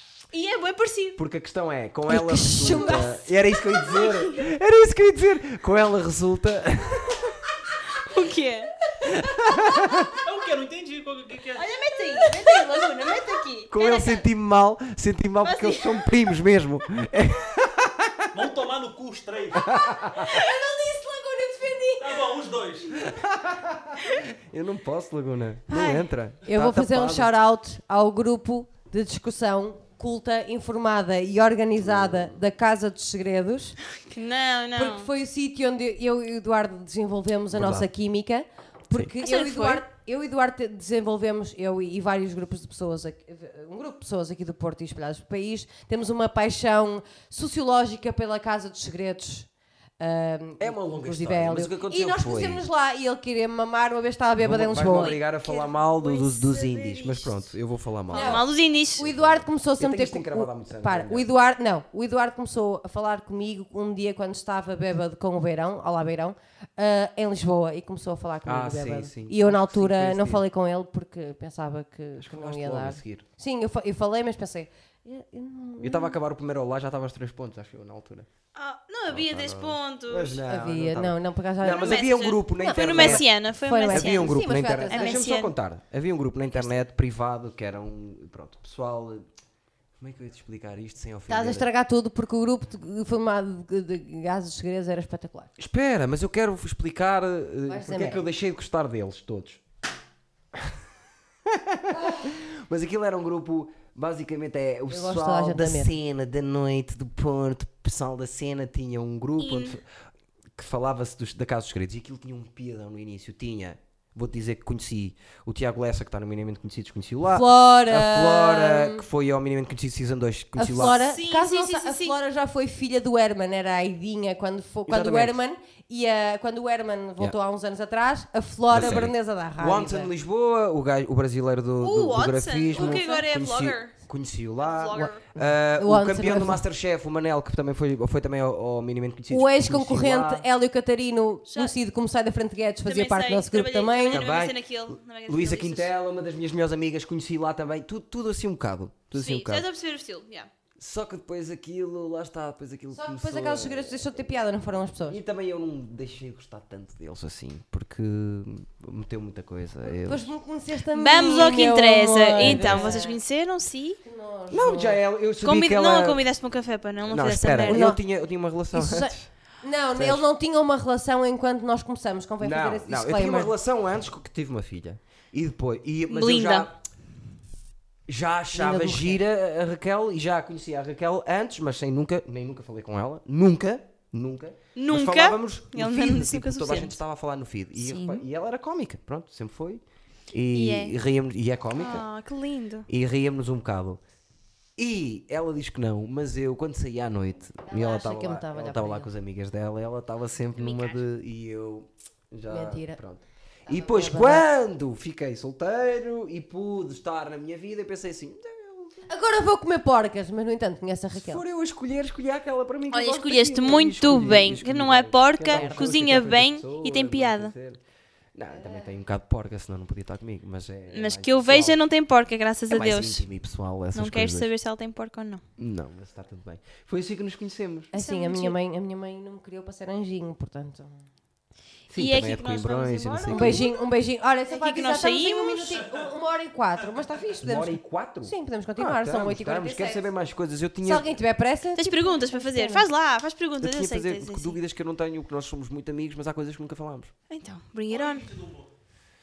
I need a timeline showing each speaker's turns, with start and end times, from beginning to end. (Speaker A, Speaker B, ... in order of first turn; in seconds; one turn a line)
Speaker A: 0.3-1.2
Speaker B: 1.2-7.4
Speaker C: 2.1-4.2
Speaker A: 4.0-4.3
Speaker A: 8.0-8.7
Speaker B: 9.0-10.2
Speaker D: 10.2-11.7
Speaker A: 11.5-14.2
Speaker C: 12.3-13.1
Speaker B: 13.7-18.4
Speaker A: 15.4-16.1
Speaker D: 18.3-19.8
Speaker B: 19.6-20.4
Speaker C: 20.2-22.1
Speaker A: 20.3-20.6
Speaker D: 22.0-23.0
Speaker B: 23.0-27.3
Speaker A: 25.7-26.1
Speaker C: 26.5-33.8
Speaker B: 31.8-32.3
Speaker A: 34.0-35.1
Speaker C: 34.8-55.2
Speaker B: 37.5-37.9
Speaker A: 39.2-39.8
Speaker B: 50.6-52.6
Speaker B: 54.4-58.4
Speaker A: 54.8-57.4
Speaker A: 58.1-59.1
Speaker C: 58.1-76.2
Speaker B: 59.0-61.3
Speaker B: 68.5-70.4
Speaker B: 72.2-73.2
Speaker B: 75.8-78.3
Speaker A: 78.5-80.4
Speaker B: 79.1-83.3
Speaker C: 80.5-85.4
Speaker A: 81.8-85.5
Speaker B: 83.9-89.3
Speaker B: 90.0-91.7
Speaker C: 91.3-95.5
Speaker B: 95.6-99.6
Speaker C: 97.7-98.2
Speaker B: 101.5-109.9
Speaker C: 104.9-105.9
Speaker A: 109.4-109.8
Speaker B: 110.5-121.0
Speaker C: 117.3-119.0
Speaker C: 120.6-130.1
Speaker A: 121.0-122.2
Speaker B: 124.9-125.4
Speaker B: 128.7-140.4
Speaker A: 131.8-133.9
Speaker C: 132.7-133.2
Speaker A: 134.6-135.2
Speaker C: 134.9-136.6
Speaker C: 139.3-144.3
Speaker A: 141.5-141.7
Speaker A: 142.9-145.9
Speaker B: 144.1-144.6
Speaker B: 145.3-149.7
Speaker A: 149.1-150.5
Speaker B: 150.8-154.2
Speaker C: 152.9-155.2
Speaker B: 155.1-160.3
Speaker C: 159.9-163.2
Speaker A: 160.9-164.0
Speaker B: 162.4-163.0
Speaker C: 164.0-165.0
Speaker B: 164.5-166.2
Speaker A: 165.4-167.9
Speaker B: 167.1-169.3
Speaker C: 167.7-168.0
Speaker C: 168.7-173.5
Speaker B: 170.0-170.2
Speaker B: 172.4-176.8
Speaker A: 176.1-176.7
Speaker B: 178.1-192.1
Speaker C: 178.5-179.2
Speaker A: 184.8-187.0
Speaker A: 187.8-188.2
Speaker A: 190.5-190.9
Speaker A: 191.8-192.9
Speaker B: 192.9-194.0
Speaker B: 194.8-209.0
Speaker C: 197.7-199.1
Speaker A: 200.6-201.0
Speaker C: 202.5-203.0
Speaker C: 203.7-204.4
Speaker C: 209.1-211.4
Speaker B: 211.2-217.8
Speaker A: 212.9-217.5
Speaker C: 215.4-215.9
Speaker B: 218.3-221.8
Speaker C: 218.6-218.9
Speaker A: 220.9-223.2
Speaker B: 222.7-224.5
Speaker A: 223.9-225.4
Speaker B: 225.6-227.9
Speaker C: 227.9-231.0
Speaker A: 227.9-228.6
Speaker B: 231.9-233.7
Speaker A: 231.9-233.8
Speaker C: 233.3-240.1
Speaker A: 234.5-235.9
Speaker B: 237.4-241.1
Speaker C: 240.8-242.9
Speaker A: 241.8-244.6
Speaker B: 243.6-247.1
Speaker A: 247.3-248.3
Speaker D: 247.9-248.7